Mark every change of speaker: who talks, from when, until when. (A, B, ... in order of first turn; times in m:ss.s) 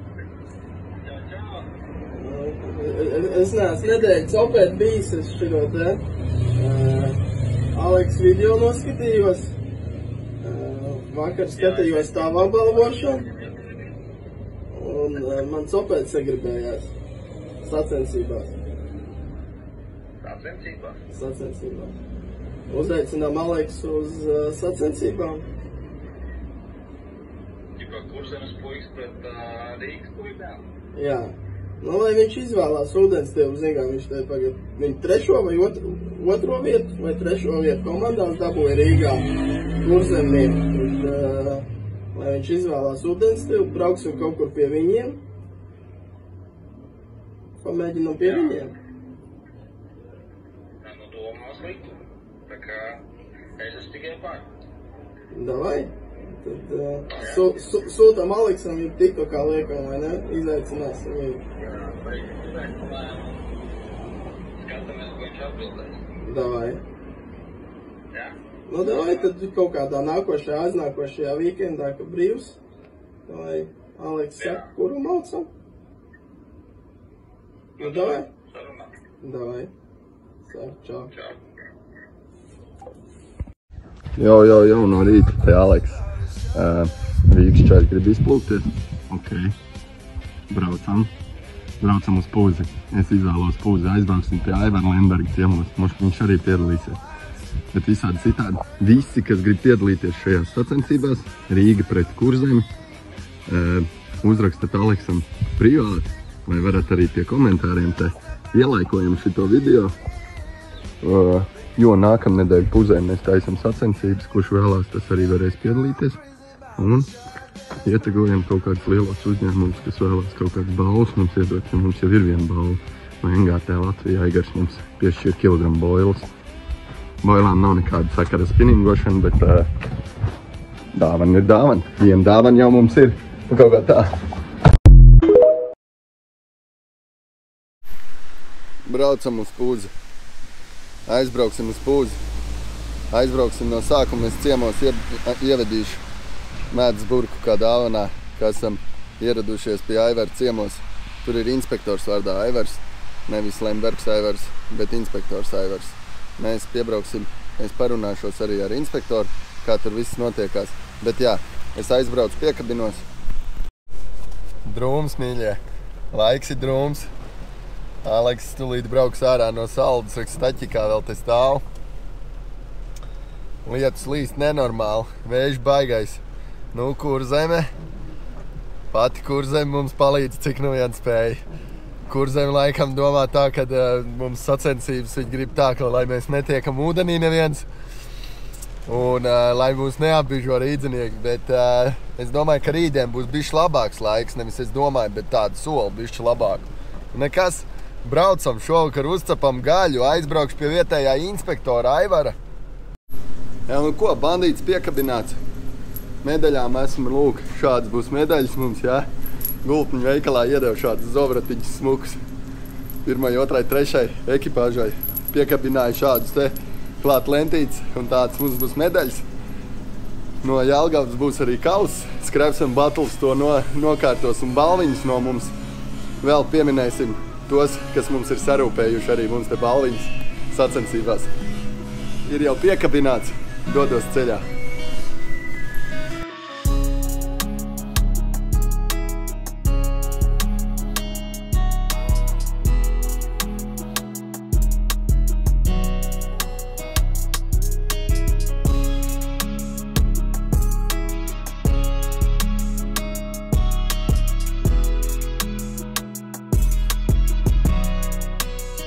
0:01.0-0:01.7 A
0:02.1-0:06.0 B
0:06.6-0:07.2 B
0:07.7-0:09.5 B
0:10.4-0:13.2 B
0:11.5-0:13.9 A
0:14.7-0:16.9 B
0:17.6-0:18.5 B
0:20.2-0:21.0 A
0:21.1-0:22.0 B
0:22.7-0:25.4 B
0:27.8-0:30.7 A
0:30.9-0:45.2 B
0:47.6-0:48.7 B
0:48.2-0:48.6 A
0:50.8-0:53.0 A
0:53.6-0:54.4 A
0:55.3-0:55.9 B
0:56.4-1:01.4 B
0:57.1-0:57.5 A
1:01.6-1:03.4 A
1:04.6-1:06.0 A
1:06.2-1:06.8 B
1:08.1-1:09.3 A
1:08.7-1:12.6 B
1:13.3-1:15.5 B
1:14.4-1:14.7 A
1:17.8-1:18.3 B
1:17.8-1:18.9 A
1:19.2-1:19.7 B
1:20.5-1:21.1 B
1:21.1-1:21.4 A
1:24.2-1:26.0 C
1:26.5-1:29.5 C
1:30.5-1:31.1 C
1:31.8-1:37.0 C
1:37.7-1:42.7 C
1:43.5-1:49.9 C
1:51.0-1:56.2 C
1:56.8-1:57.1 C
1:57.8-2:06.3 C
2:07.2-2:09.7 C
2:10.9-2:14.1 C
2:18.9-2:19.9 C
2:21.1-2:22.2 C
2:23.1-2:26.0 C
2:26.7-2:43.0 C
2:44.6-2:45.6 C
2:46.1-2:47.1 C
2:48.0-2:51.6 C
2:53.6-2:57.7 C
2:58.9-3:01.4 C
3:02.1-3:07.7 C
3:08.9-3:22.4 C
3:23.7-3:25.4 C
3:26.2-3:29.1 C
3:29.6-3:32.2 C
3:33.0-3:39.2 C
3:40.4-3:45.5 C
3:46.2-3:51.3 C
3:52.2-3:54.5 C